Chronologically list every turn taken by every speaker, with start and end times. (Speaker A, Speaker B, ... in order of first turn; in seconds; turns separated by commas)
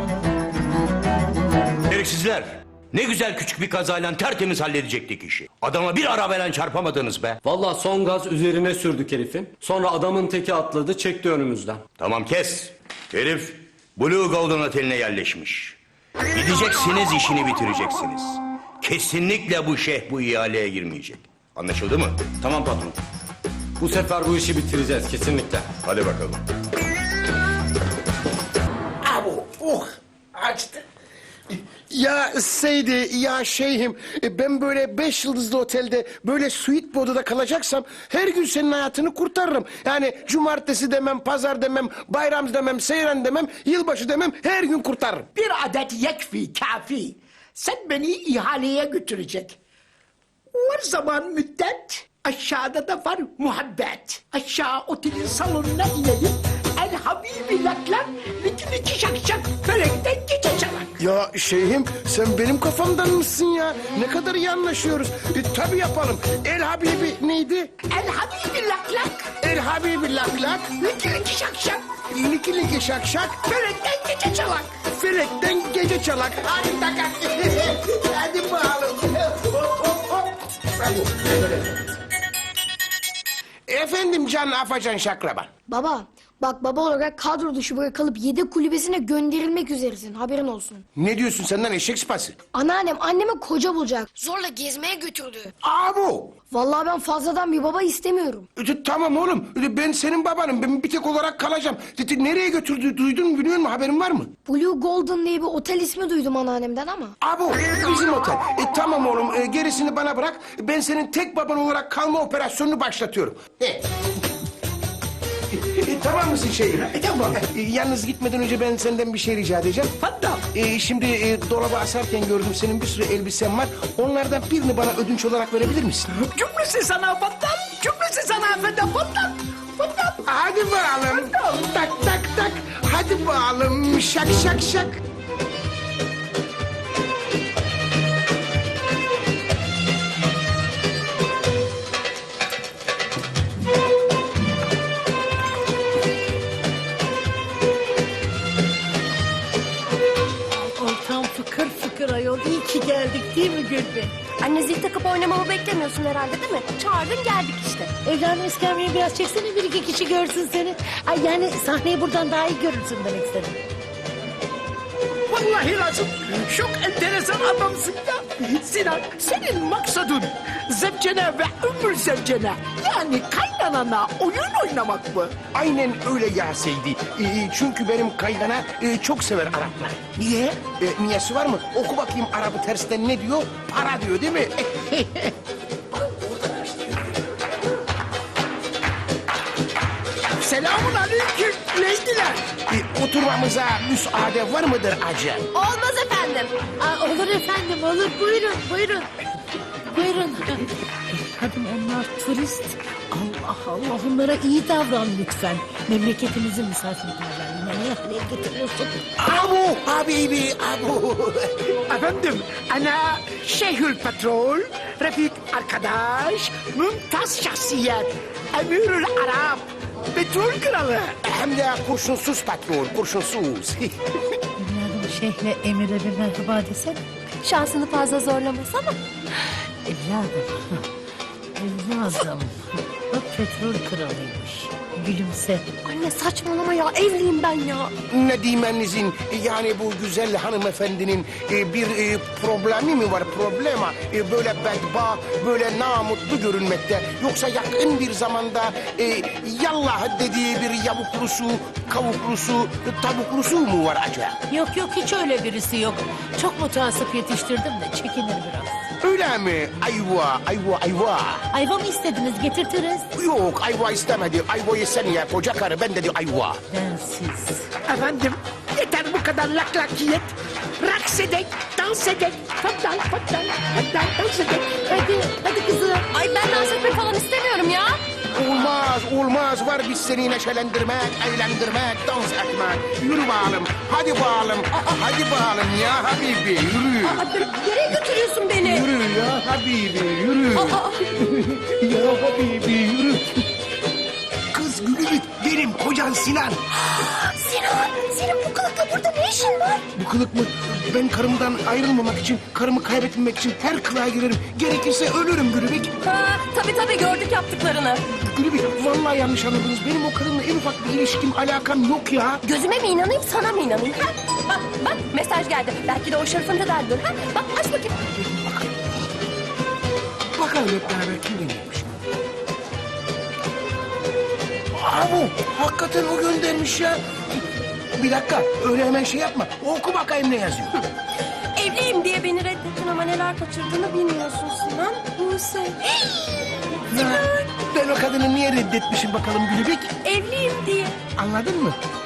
Speaker A: 1.9-8.8, Speaker B: 7.5-11.8, Speaker A: 9.7-10.2, Speaker A: 11.6-15.8, Speaker A: 16.3-23.0, Speaker B: 23.8-25.7, Speaker A: 25.7-26.4, Speaker C: 29.0-30.8, Speaker C: 31.9-45.2, Speaker D: 45.4-49.6, Speaker D: 50.5-61.0, Speaker C: 61.0-67.7, Speaker D: 67.9-69.3, Speaker C: 69.4-70.8, Speaker D: 70.8-71.8, Speaker C: 72.1-73.4, Speaker D: 73.5-74.8, Speaker C: 74.9-81.7, Speaker C: 83.7-85.5, Speaker E: 85.7-90.8, Speaker C: 91.0-92.4, Speaker E: 92.5-95.5, Speaker C: 95.6-96.3, Speaker E: 96.5-98.5, Speaker C: 98.6-104.3, Speaker E: 104.5-107.1, Speaker C: 107.2-113.9, Speaker C: 115.5-119.9, Speaker D: 117.1-117.3, Speaker D: 120.0-120.4, Speaker C: 120.5-126.1, Speaker D: 126.1-130.2, Speaker C: 130.2-135.0, Speaker D: 131.1-131.7, Speaker F: 150.6-154.2, Speaker G: 154.4-157.9, Speaker F: 158.0-163.6, Speaker D: 165.3-175.3, Speaker C: 175.5-185.3, Speaker C: 186.0-187.1, Speaker D: 190.4-192.4, Speaker C: 192.7-195.5, Speaker G: 195.5-196.5, Speaker F: 196.8-199.1, Speaker F: 199.9-209.0, Speaker C: 209.2-211.7, Speaker D: 211.9-221.2, Speaker C: 221.2-224.1, Speaker F: 224.6-227.0, Speaker G: 227.4-229.0, Speaker F: 229.8-230.8, Speaker F: 231.6-235.7, Speaker G: 235.8-237.9, Speaker C: 238.1-254.4, Speaker F: 254.5-258.9, Speaker C: 259.0-261.4, Speaker F: 261.5-263.1, Speaker C: 263.2-266.6, Speaker F: 266.7-267.7, Speaker D: 267.9-275.0, Speaker F: 274.9-276.1, Speaker G: 276.1-278.0, Speaker C: 278.3-287.2, Speaker G: 287.0-288.9, Speaker C: 288.6-293.4, Speaker G: 290.6-291.0, Speaker C: 294.5-296.6, Speaker G: 296.7-299.9, Speaker C: 299.9-305.9, Speaker G: 306.0-308.0, Speaker C: 308.2-312.4, Speaker G: 312.4-317.9, Speaker C: 320.4-321.9, Speaker C: 324.8-327.0, Speaker C: 328.0-330.9, Speaker G: 331.6-336.4, Speaker C: 336.9-339.9, Speaker G: 336.9-337.5, Speaker G: 340.0-341.0, Speaker C: 341.2-341.8